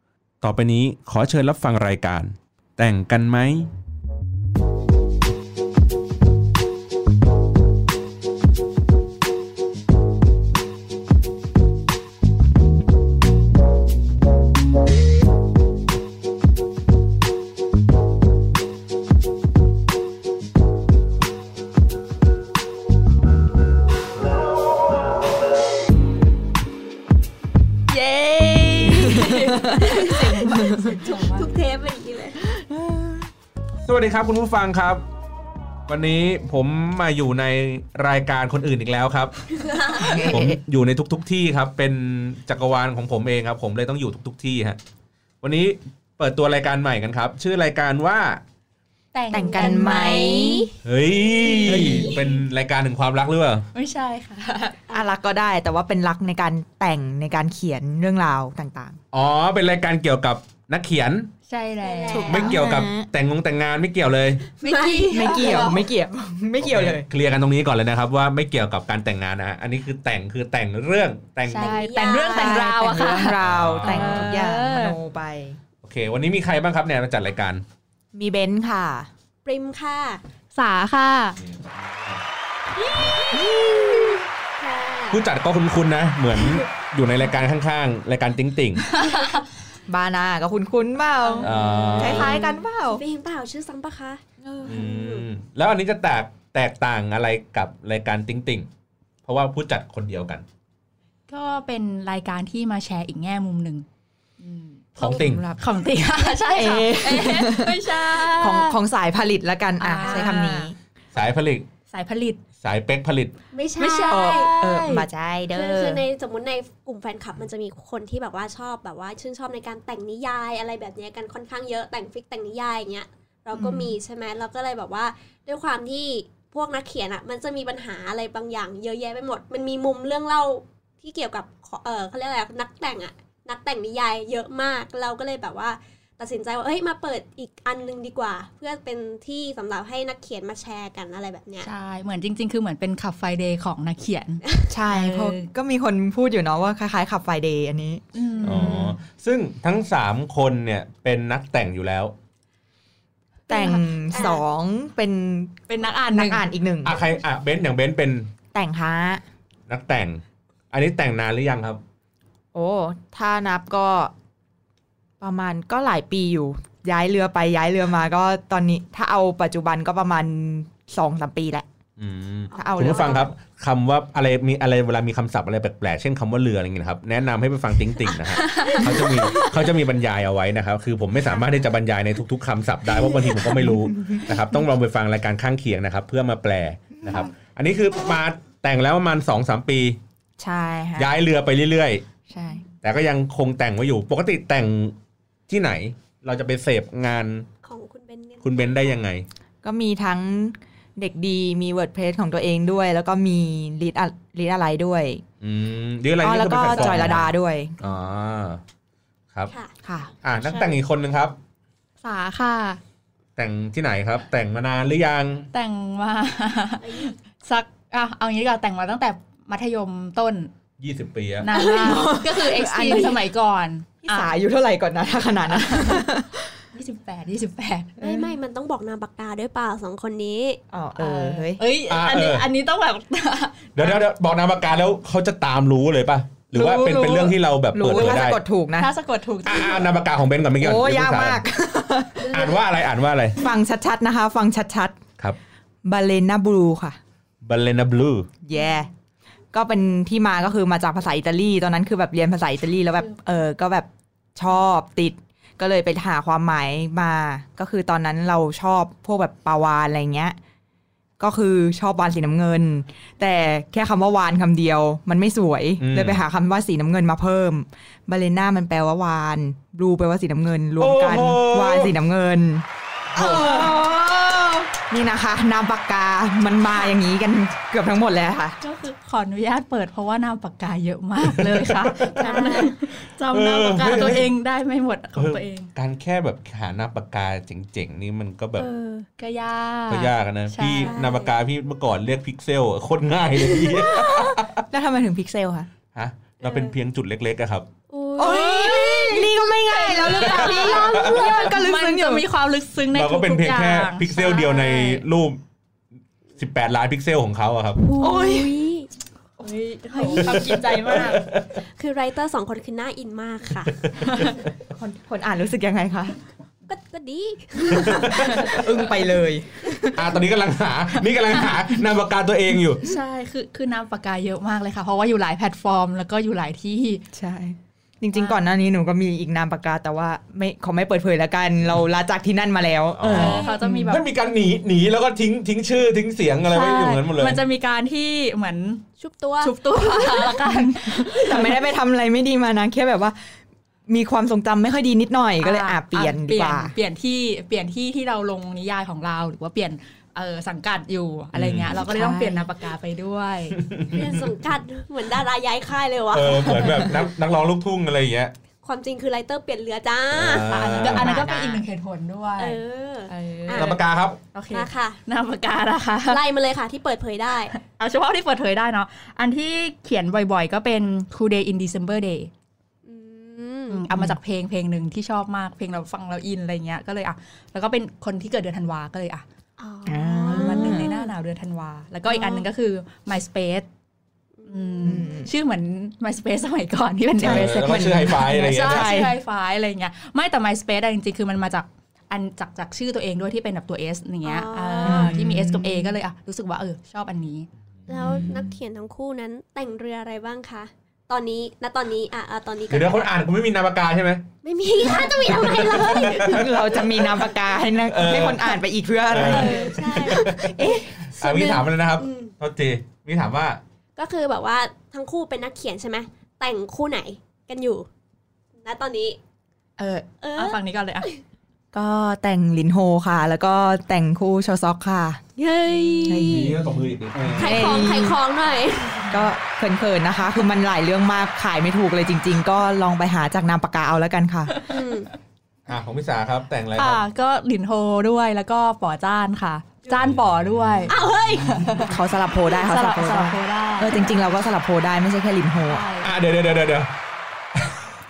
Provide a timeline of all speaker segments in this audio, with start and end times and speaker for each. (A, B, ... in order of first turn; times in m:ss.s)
0:00.4-0:03.7 A
0:27.9-0:32.4 B
0:29.1-0:31.5 C
0:29.2-0:29.8 D
0:30.4-0:31.0 D
0:32.5-0:33.3 D
0:33.8-0:35.0 A
0:35.9-0:39.3 A
0:39.5-0:40.2 B
0:39.9-0:40.3 C
0:40.0-0:40.6 D
0:40.2-0:44.8 A
0:45.4-0:48.4 A
0:49.1-0:50.6 C
0:49.3-0:50.7 D
0:49.3-0:52.4 B
0:50.8-0:53.6 A
0:53.7-0:54.8 C
0:54.9-0:59.0 D
0:59.1-1:01.3 A
1:01.5-1:02.4 C
1:01.8-1:02.6 B
1:02.1-1:03.1 D
1:02.2-1:04.4 A
1:04.6-1:05.7 B
1:04.6-1:05.8 C
1:05.1-1:07.1 D
1:06.6-1:11.8 A
1:11.5-1:15.0 C
1:11.6-1:12.6 B
1:12.3-1:15.6 D
1:13.4-1:14.3 A
1:15.8-1:17.6 A
1:18.1-1:19.1 D
1:19.4-1:20.2 B
1:20.5-1:21.4 C
1:21.4-1:22.2 A
1:22.8-1:25.2 B
1:25.1-1:28.8 A
1:28.8-1:29.4 C
1:29.9-1:33.0 D
1:31.2-1:35.3 B
1:31.4-1:32.4 A
1:34.6-1:38.7 A
1:39.2-1:40.4 A
1:41.3-1:43.8 C
1:44.4-1:48.8 C
1:45.0-1:45.5 A
1:46.6-1:50.8 D
1:49.8-1:50.7 C
1:50.0-1:50.3 B
1:51.1-1:51.7 A
1:51.9-1:52.4 C
1:52.6-1:53.4 A
1:53.5-2:21.7 B
1:53.8-1:54.5 C
1:54.1-1:56.0 D
2:03.5-2:04.0 C
2:21.6-2:25.5 C
2:24.7-2:28.0 D
2:28.1-2:29.0 C
2:28.4-2:32.1 A
2:33.5-2:33.9 C
2:33.5-2:37.0 D
2:34.1-2:34.4 B
2:35.7-2:36.5 C
2:36.8-2:38.3 A
2:38.5-2:39.2 D
2:39.7-2:41.8 A
2:42.5-2:44.1 D
2:45.2-2:51.7 D
2:52.0-3:10.0 A
2:52.6-2:53.3 B
2:52.6-2:53.3 D
2:58.0-2:59.6 B
2:58.4-2:58.8 C
3:03.6-3:04.2 D
3:10.4-3:11.1 D
3:11.0-3:12.0 A
3:12.3-3:12.6 D
3:12.8-3:15.0 A
3:15.5-3:17.5 A
3:17.6-3:18.9 B
3:18.4-3:19.3 A
3:19.6-3:25.2 D
3:25.4-3:28.6 A
3:26.2-3:27.8 D
3:29.8-3:30.1 D
3:30.2-3:31.4 A
3:30.4-3:30.8 B
3:32.0-3:32.8 C
3:33.4-3:35.5 A
3:35.5-3:40.5 C
3:36.8-3:37.2 B
3:40.8-3:41.5 A
3:41.4-3:44.4 C
3:41.5-3:43.2 D
3:41.6-3:42.1 B
3:44.1-3:46.5 D
3:45.5-3:46.1 C
3:46.7-3:48.0 C
3:48.0-3:48.3 D
3:48.0-3:50.6 B
3:50.7-3:51.6 D
3:51.0-3:54.0 C
3:51.9-3:52.5 A
3:53.8-3:58.4 A
3:56.5-3:59.9 C
3:57.7-3:58.9 D
3:59.4-4:01.4 A
4:00.6-4:02.5 D
4:02.2-4:02.6 C
4:02.3-4:03.4 A
4:03.4-4:05.0 D
4:05.8-4:07.0 D
4:07.4-4:08.3 A
4:08.4-4:08.9 D
4:08.5-4:08.9 C
4:09.5-4:20.4 D
4:21.2-4:38.6 D
4:25.8-4:26.2 A
4:30.8-4:32.0 A
4:33.1-4:33.8 A
4:38.6-4:45.7 C
4:41.2-4:42.4 A
4:42.2-4:42.7 B
4:43.3-4:44.3 A
4:45.2-4:48.7 A
4:48.6-4:51.1 C
4:49.9-4:54.6 A
4:50.8-4:51.3 B
4:53.5-4:55.7 D
4:56.0-4:57.7 A
4:56.4-4:56.8 B
4:57.9-5:00.9 B
4:58.2-5:02.3 D
4:58.2-5:05.1 C
5:00.1-5:01.5 A
5:02.9-5:05.4 A
5:06.4-5:07.8 A
5:07.8-5:08.9 B
5:08.0-5:08.6 D
5:09.4-5:11.2 C
5:10.2-5:11.6 A
5:11.8-5:13.9 B
5:13.9-5:14.2 A
5:14.0-5:14.4 C
5:14.7-5:16.2 D
5:16.7-5:19.1 B
5:17.7-5:18.6 A
5:18.2-5:20.2 D
5:20.0-5:22.8 A
5:21.0-5:21.8 C
5:22.7-5:27.0 C
5:27.1-5:33.9 D
5:28.1-5:28.4 C
5:33.0-5:37.4 A
5:33.1-5:34.1 C
5:36.5-5:38.8 C
5:39.0-5:40.2 B
5:39.4-5:41.6 C
5:40.8-5:43.4 D
5:43.9-5:46.8 D
5:45.4-5:53.6 C
5:51.3-5:51.8 A
5:51.7-5:52.5 D
5:53.6-5:54.0 A
5:53.9-5:56.8 B
5:56.1-5:58.3 A
5:58.6-6:00.5 B
6:00.1-6:01.2 A
6:00.5-6:06.2 C
6:00.8-6:01.6 D
6:02.4-6:03.7 B
6:03.5-6:04.2 A
6:04.5-6:05.0 B
6:06.1-6:07.5 B
6:07.5-6:12.3 C
6:12.9-6:13.9 B
6:13.7-6:19.2 C
6:19.6-6:21.1 B
6:19.9-6:20.9 D
6:20.3-6:23.7 C
6:22.1-6:22.4 B
6:24.4-6:25.2 B
6:24.5-6:37.5 C
6:24.8-6:25.3 D
6:27.2-6:29.2 D
6:27.2-6:29.0 A
6:34.2-6:35.2 B
6:34.8-6:36.0 D
6:37.9-6:43.1 B
6:38.0-6:38.6 D
6:42.7-6:44.2 A
6:44.4-6:46.8 B
6:44.9-6:45.3 D
6:45.1-6:46.9 A
6:45.9-6:51.6 D
6:47.9-6:50.6 A
6:49.2-6:50.3 B
6:51.2-6:53.6 A
6:51.2-6:52.3 B
6:54.0-6:57.9 B
6:58.6-6:59.2 B
6:59.8-7:01.1 C
7:00.2-7:01.2 B
7:01.7-7:05.2 D
7:05.4-7:06.6 B
7:06.0-7:06.6 D
7:06.2-7:07.6 A
7:07.3-7:08.2 D
7:07.3-7:09.2 B
7:09.1-7:14.6 D
7:14.7-7:15.1 B
7:15.7-7:17.0 A
7:16.8-7:21.0 C
7:20.0-7:20.9 A
7:20.9-7:21.7 B
7:21.5-7:22.0 C
7:21.9-7:25.9 D
7:22.5-7:24.1 C
7:25.6-7:26.1 C
7:26.0-7:26.9 A